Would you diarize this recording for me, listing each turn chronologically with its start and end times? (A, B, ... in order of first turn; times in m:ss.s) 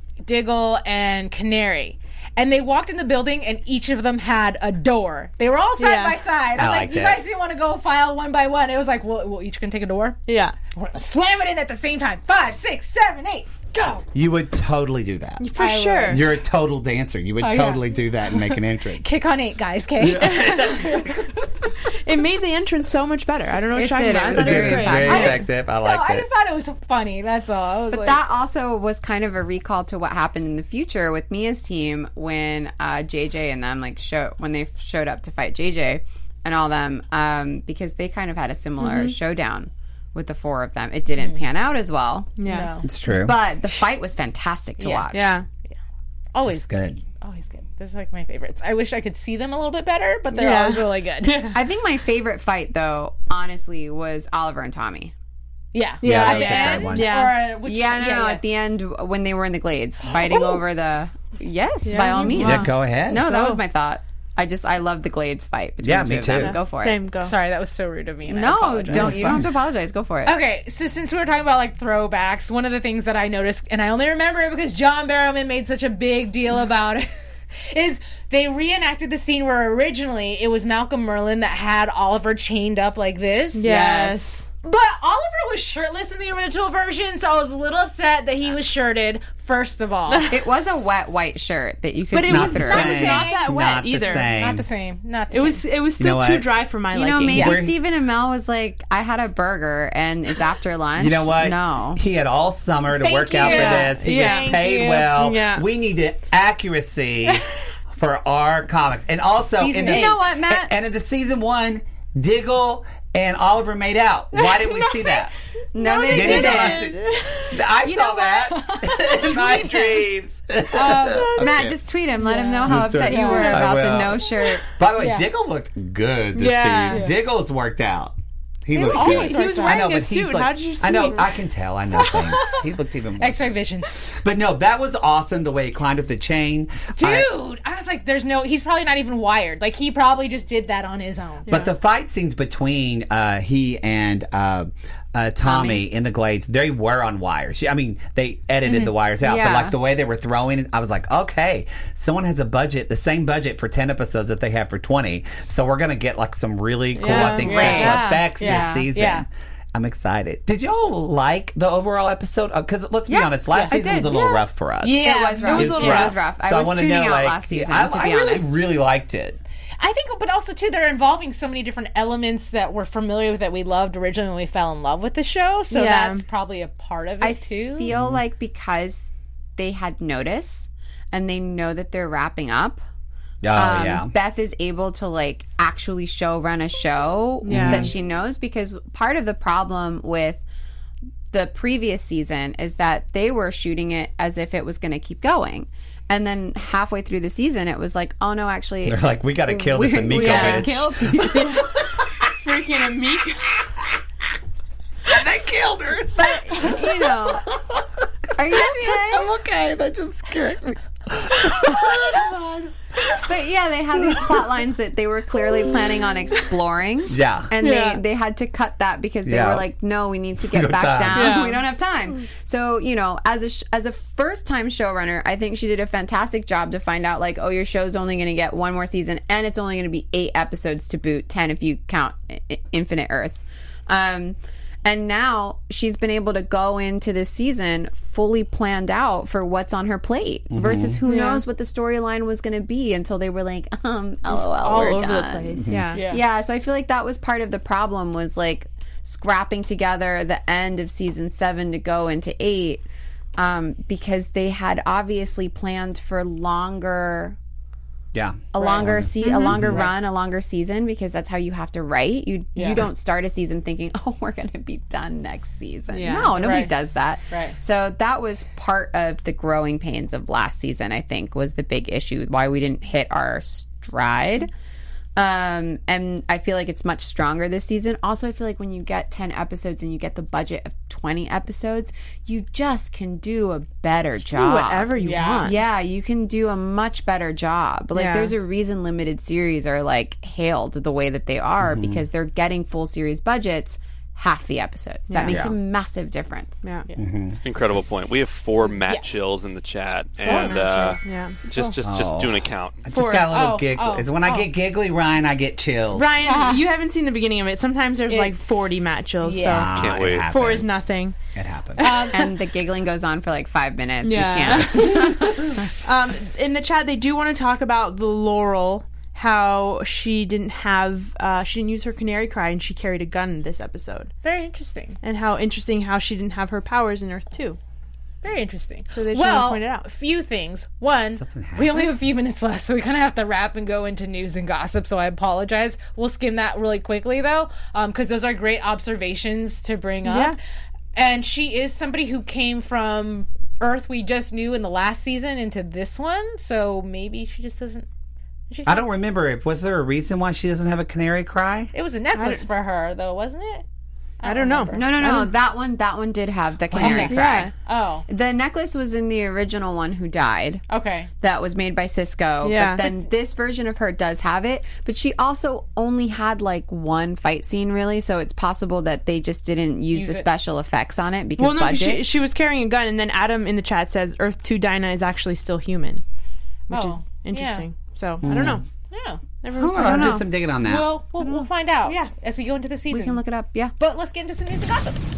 0:00.2-0:10.2 A
0:05.8-0:06.2 B
0:06.6-0:07.2 C
0:10.3-0:10.6 B
0:10.7-0:14.1 A
0:14.1-0:15.5 C
0:15.4-0:16.2 B
0:15.6-0:16.3 A
0:16.0-0:19.1 C
0:17.4-0:17.9 A
0:19.0-0:21.3 A
0:20.0-0:21.3 C
0:20.2-0:21.0 B
0:21.9-0:25.4 B
0:23.7-0:25.4 D
0:24.3-0:26.3 C
0:24.9-0:28.2 A
0:27.9-0:42.4 D
0:38.8-0:39.2 B
0:41.2-0:41.4 A
0:42.4-0:42.7 B
0:42.4-0:42.9 A
0:42.8-0:43.4 C
0:43.1-0:45.4 D
0:44.8-0:45.1 A
0:45.1-0:45.5 B
0:46.3-0:46.7 A
0:46.5-0:47.0 C
0:47.2-0:51.5 A
0:50.4-0:51.6 B
0:51.5-0:55.1 D
0:55.7-0:58.4 A
0:56.0-0:57.4 B
0:56.0-0:57.2 C
0:57.6-1:07.0 D
1:01.8-1:03.6 B
1:02.0-1:02.5 A
1:02.3-1:03.3 C
1:05.8-1:06.6 C
1:06.4-1:07.3 B
1:07.2-1:09.4 A
1:08.3-1:10.4 D
1:08.9-1:09.5 C
1:10.2-1:23.7 A
1:23.6-1:24.5 B
1:23.6-1:24.2 D
1:24.6-1:30.6 A
1:30.3-1:33.3 D
1:32.1-1:34.3 B
1:32.2-1:34.7 C
1:32.9-1:33.3 A
1:34.4-1:35.6 A
1:35.3-1:37.6 B
1:36.0-1:36.5 C
1:36.9-1:42.0 D
1:37.2-1:37.8 C
1:41.0-1:55.3 C
1:42.9-1:44.0 D
1:43.4-1:45.1 A
1:43.4-1:45.6 B
1:49.6-1:50.2 A
1:49.8-1:50.7 D
1:54.4-1:55.2 B
1:55.7-1:56.9 D
1:55.8-1:57.6 B
1:56.1-2:01.8 C
1:57.8-2:00.1 A
2:00.7-2:01.5 A
2:01.4-2:04.7 D
2:02.2-2:03.7 A
2:02.2-2:02.6 B
2:02.6-2:13.6 C
2:03.1-2:03.6 B
2:05.0-2:05.3 A
2:06.4-2:07.1 B
2:08.7-2:09.9 A
2:08.8-2:11.3 B
2:12.0-2:12.6 A
2:13.2-2:13.9 A
2:14.2-2:17.3 C
2:16.9-2:21.5 A
2:21.5-2:21.7 B
2:21.5-2:49.4 C
2:25.4-2:25.8 D
2:29.2-2:29.8 D
2:37.0-2:38.4 B
2:37.1-2:38.9 D
2:37.2-2:39.2 A
2:43.1-2:48.6 D
2:44.9-2:46.1 A
2:45.5-2:46.2 B
2:49.8-2:57.9 A
2:55.7-2:56.2 B
2:57.2-3:02.8 D
2:57.9-2:58.2 C
3:03.4-3:04.1 C
3:03.5-3:10.4 D
3:07.4-3:07.9 B
3:07.5-3:07.9 C
3:11.3-3:21.8 D
3:18.8-3:21.6 C
3:20.2-3:21.7 B
3:22.4-3:23.6 B
3:25.1-3:26.2 C
3:26.2-3:27.5 D
3:26.8-3:27.8 C
3:28.4-3:29.3 D
3:28.5-3:33.0 C
3:31.7-3:31.9 D
3:33.2-4:12.8 D
3:37.1-3:37.5 C
3:37.6-3:38.0 B
3:39.2-3:39.7 C
3:40.4-3:41.5 C
3:41.1-3:41.6 B
4:00.5-4:01.0 C
4:01.0-4:01.4 B
4:04.3-4:06.0 B
4:05.6-4:05.9 C
4:05.9-4:06.2 A
4:13.4-4:17.4 D
4:18.1-4:19.9 C
4:18.5-4:34.5 D
4:18.6-4:18.9 A
4:19.2-4:19.8 B
4:22.6-4:22.8 A
4:25.9-4:26.4 B
4:26.4-4:26.7 A
4:27.3-4:27.6 A
4:35.2-4:56.6 D
4:44.3-4:45.6 B
4:45.0-4:45.6 A
4:48.0-4:48.3 B
4:51.6-4:52.0 C
4:55.1-4:55.4 B
4:55.2-4:55.6 A
4:57.0-4:57.4 C
4:57.4-5:02.8 E
4:58.8-4:59.1 A
5:00.2-5:01.7 A
5:00.3-5:01.4 B
5:01.8-5:06.3 C
5:02.9-5:03.3 B
5:03.3-5:04.5 A
5:05.9-5:09.7 B
5:06.2-5:06.6 A
5:08.1-5:08.5 A
5:09.2-5:09.7 A
5:09.5-5:10.8 C
5:09.8-5:10.3 E
5:10.3-5:11.2 B
5:11.3-5:12.0 C
5:11.8-5:12.3 A
5:12.1-5:15.7 D
5:14.0-5:24.1 B
5:24.2-5:25.0 A
5:25.0-5:27.6 B
5:28.2-5:40.4 A
5:29.0-5:29.9 B
5:31.2-5:31.9 C
5:40.0-5:40.4 B
5:41.0-5:47.9 A
5:48.5-5:48.9 A
5:48.7-5:51.7 C
5:51.7-5:53.6 A
5:52.1-5:52.4 B
5:54.2-5:54.8 A
5:54.2-5:55.3 B
5:54.8-5:57.5 D
5:56.7-5:57.1 C
5:56.8-5:58.0 A
5:57.1-5:57.5 B
5:58.1-6:00.6 D
6:00.7-6:01.1 A
6:01.2-6:12.0 D
6:02.4-6:02.9 B
6:09.9-6:10.3 A
6:11.4-6:16.0 B
6:16.7-6:17.6 A
6:16.7-6:18.6 B
6:18.2-6:18.6 C
6:18.9-6:19.2 A
6:19.4-6:20.3 B
6:19.5-6:20.9 C
6:19.8-6:20.2 D
6:20.6-6:23.2 A
6:21.2-6:21.5 D
6:22.9-6:23.7 D
6:23.8-6:25.0 A